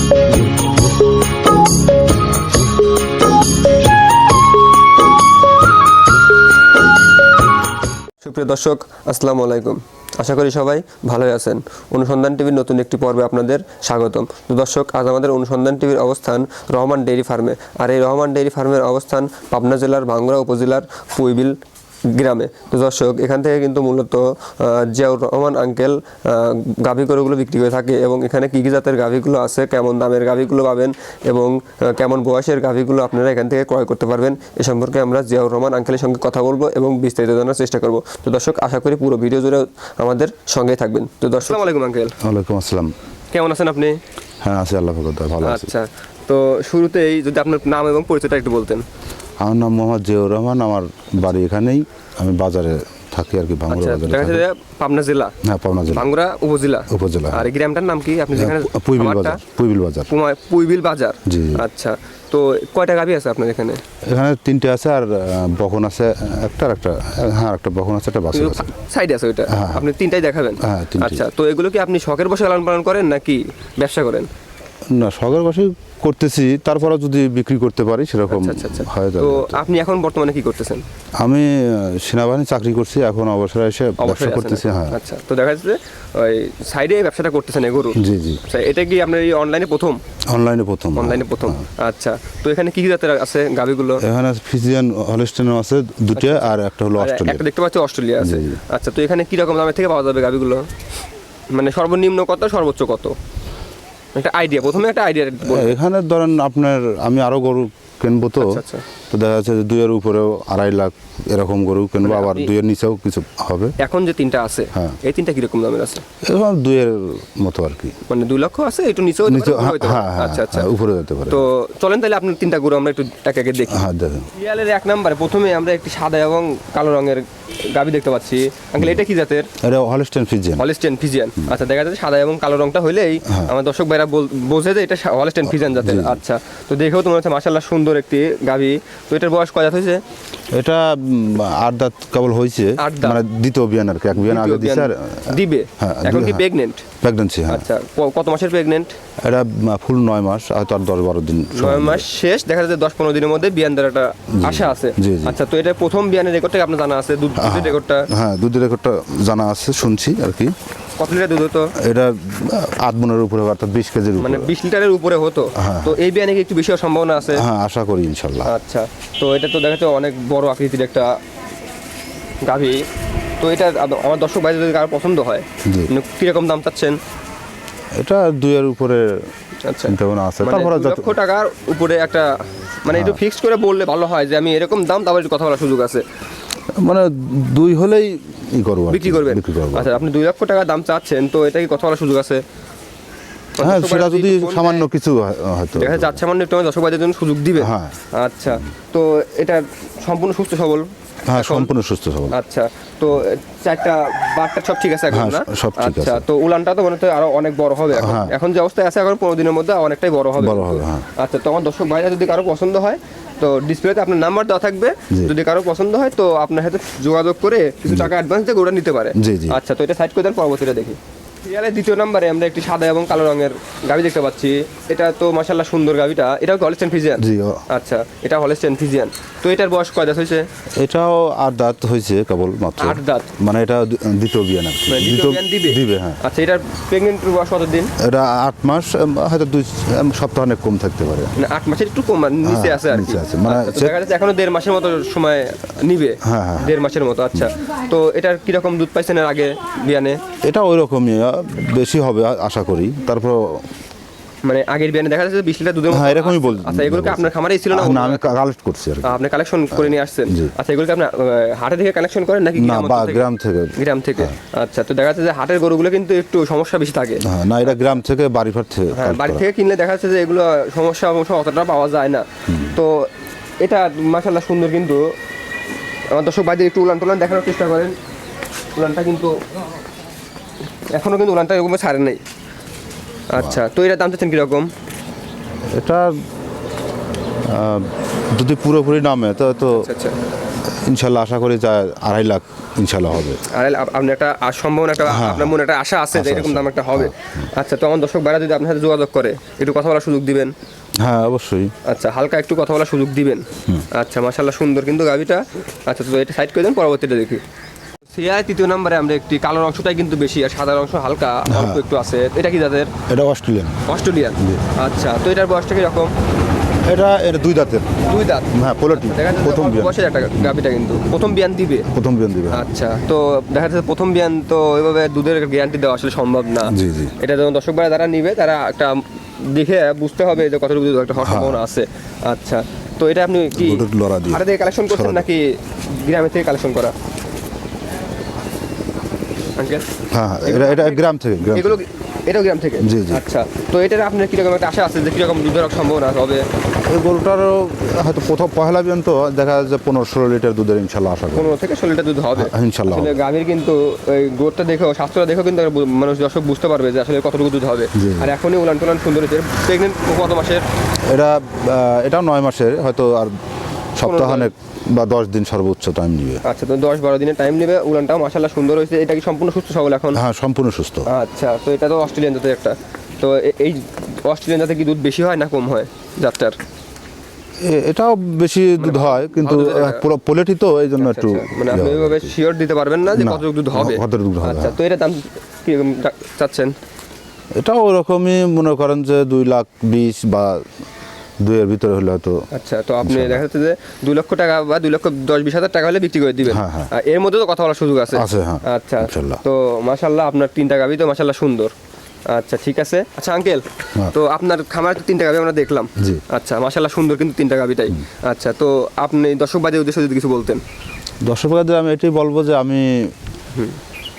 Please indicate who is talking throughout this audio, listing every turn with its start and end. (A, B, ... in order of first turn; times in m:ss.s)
0:08.2-0:21.6 A
0:22.1-0:42.2 A
0:42.2-0:42.9 B
0:43.3-0:44.0 A
0:44.4-0:45.7 B
0:45.4-0:48.8 A
0:49.4-0:54.5 B
0:53.7-0:55.3 A
0:55.4-0:56.1 B
0:55.9-0:59.4 A
0:56.9-0:57.5 B
0:58.3-1:00.1 B
1:00.1-1:03.8 A
1:01.3-1:01.6 B
1:04.1-1:08.7 B
1:08.3-1:14.3 A
1:09.5-1:09.9 B
1:10.6-1:11.3 B
1:14.9-1:19.6 B
1:18.3-1:20.8 A
1:21.2-1:25.0 B
1:24.0-1:30.0 A
1:28.0-1:28.4 B
1:30.3-1:31.6 B
1:31.0-1:34.0 A
1:34.0-1:37.4 B
1:36.2-1:40.7 A
1:38.2-1:38.6 B
1:41.5-1:43.2 A
1:44.2-1:45.8 A
1:45.4-1:53.8 B
1:48.4-1:48.9 A
1:52.0-1:52.5 A
1:53.8-1:56.0 A
1:56.2-1:58.0 B
1:58.1-2:00.7 A
1:59.3-2:01.4 B
2:01.3-2:09.5 A
2:03.7-2:04.3 B
2:09.6-2:10.6 B
2:10.6-2:20.0 A
2:13.3-2:13.5 B
2:15.5-2:16.2 B
2:20.5-2:26.4 B
2:22.8-2:23.2 A
2:24.1-2:26.8 A
2:27.0-2:27.7 B
2:27.5-2:29.0 A
2:29.2-2:32.1 B
2:31.6-2:38.1 A
2:34.4-2:35.4 B
2:37.4-2:40.5 B
2:41.0-2:41.7 A
2:41.8-2:44.5 B
2:44.2-2:47.4 A
2:45.6-2:46.0 B
2:47.3-2:48.5 B
2:48.5-2:51.1 A
2:52.4-2:52.8 A
2:53.4-2:57.0 A
2:55.6-2:55.9 B
2:58.0-2:59.2 B
2:59.7-3:06.0 A
2:59.8-3:01.2 B
3:02.9-3:03.2 B
3:06.8-3:10.0 B
3:08.9-3:12.4 A
3:13.6-3:14.9 A
3:13.6-3:16.2 B
3:15.8-3:21.7 A
3:17.6-3:18.0 B
3:21.3-3:22.4 B
3:22.3-3:50.5 A
3:25.1-3:26.2 B
3:27.9-3:28.4 B
3:30.4-3:31.0 B
3:37.9-3:38.1 B
3:39.2-3:39.6 B
3:47.2-3:47.6 B
3:50.8-3:56.2 B
3:52.8-3:53.3 A
3:54.9-3:57.9 A
3:58.0-4:01.3 B
4:01.4-4:10.2 A
4:02.4-4:04.0 B
4:06.2-4:06.8 B
4:10.4-4:13.7 B
4:14.4-4:18.3 A
4:15.9-4:19.2 B
4:19.0-4:27.8 A
4:19.7-4:20.5 B
4:22.6-4:24.4 B
4:27.2-4:29.4 B
4:28.9-4:33.1 A
4:32.5-4:32.8 B
4:33.6-4:35.0 A
4:36.1-4:38.0 A
4:38.8-4:39.3 A
4:40.9-4:42.2 A
4:43.3-4:44.7 A
4:45.7-4:46.2 B
4:47.4-4:49.9 B
4:49.7-4:50.2 A
4:50.7-4:53.4 B
4:53.5-5:00.5 A
4:55.0-4:55.6 B
4:56.1-4:57.5 B
5:01.0-5:01.7 B
5:01.8-5:07.4 A
5:08.1-5:12.9 A
5:11.5-5:11.8 B
5:13.1-5:13.8 B
5:13.9-5:16.1 A
5:14.4-5:14.6 B
5:16.9-5:20.6 B
5:18.0-5:21.9 A
5:21.9-5:22.7 B
5:22.5-5:36.9 A
5:26.7-5:27.2 B
5:31.2-5:31.6 B
5:33.6-5:35.3 B
5:39.6-5:39.8 A
5:40.1-5:41.8 B
5:40.4-5:41.0 A
5:41.5-5:46.4 A
5:42.8-5:43.2 B
5:46.9-5:51.6 B
5:51.4-6:00.6 A
5:52.4-5:53.2 B
5:58.0-5:58.3 B
6:01.1-6:03.4 B
6:04.0-6:06.4 B
6:04.0-6:04.5 A
6:06.4-6:10.2 A
6:10.1-6:11.1 B
6:11.1-6:16.6 A
6:17.6-6:22.4 B
6:18.8-6:20.1 A
6:21.0-6:26.7 A
6:23.1-6:24.8 B
6:27.6-6:30.7 B
6:31.4-6:32.4 B
6:32.5-6:41.7 A
6:33.0-6:33.4 B
6:36.5-6:36.9 B
6:38.1-6:39.4 B
6:42.3-6:50.6 A
6:51.2-6:53.1 B